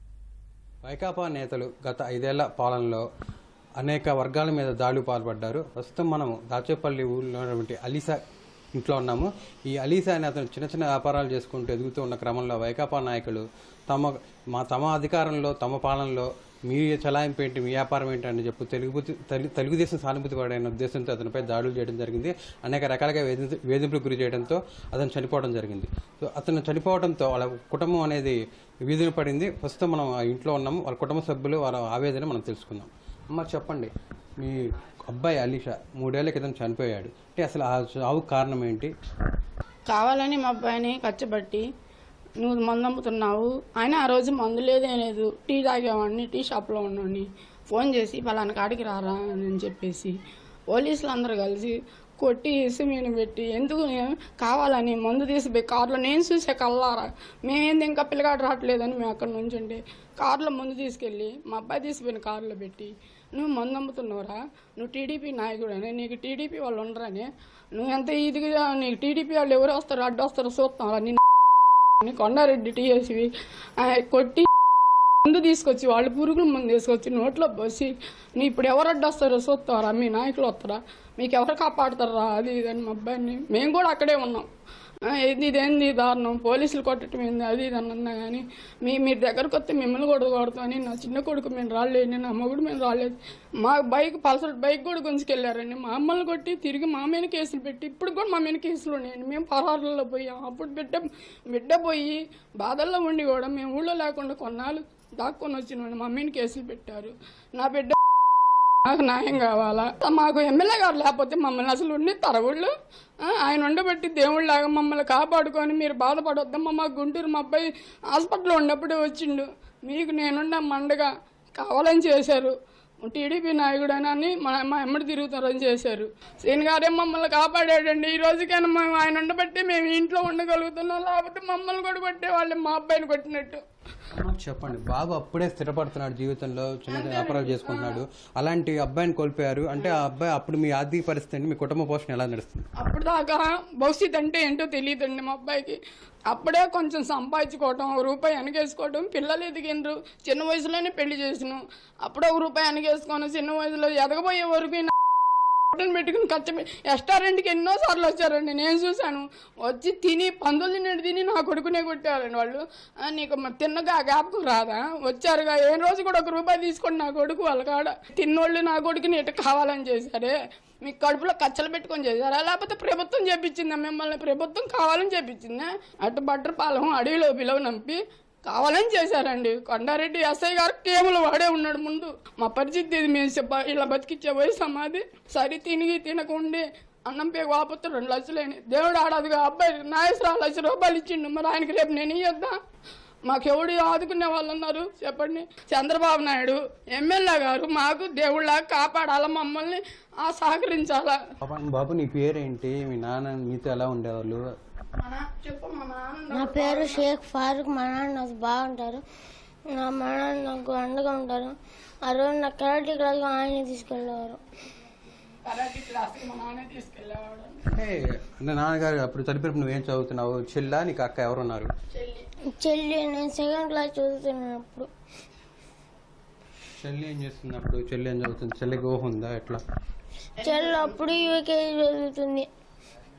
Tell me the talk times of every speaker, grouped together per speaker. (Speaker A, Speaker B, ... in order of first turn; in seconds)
Speaker A: 0.8-3.0, 3.8-8.2, 8.8-38.9, 134.1-142.7, 201.4-204.4, 217.7-221.7, 226.8-229.6
Speaker B: 39.9-41.7, 42.4-50.1, 50.7-71.2, 72.0-74.5, 75.2-84.5, 85.0-108.0, 108.8-112.7, 113.2-133.6, 136.9-138.0, 142.8-154.9, 155.7-192.6, 193.2-201.2, 205.0-207.1, 215.4-217.7, 221.9-222.3, 230.4-231.3
Speaker C: 206.3-209.0, 209.7-214.4, 222.6-224.9, 230.4-232.5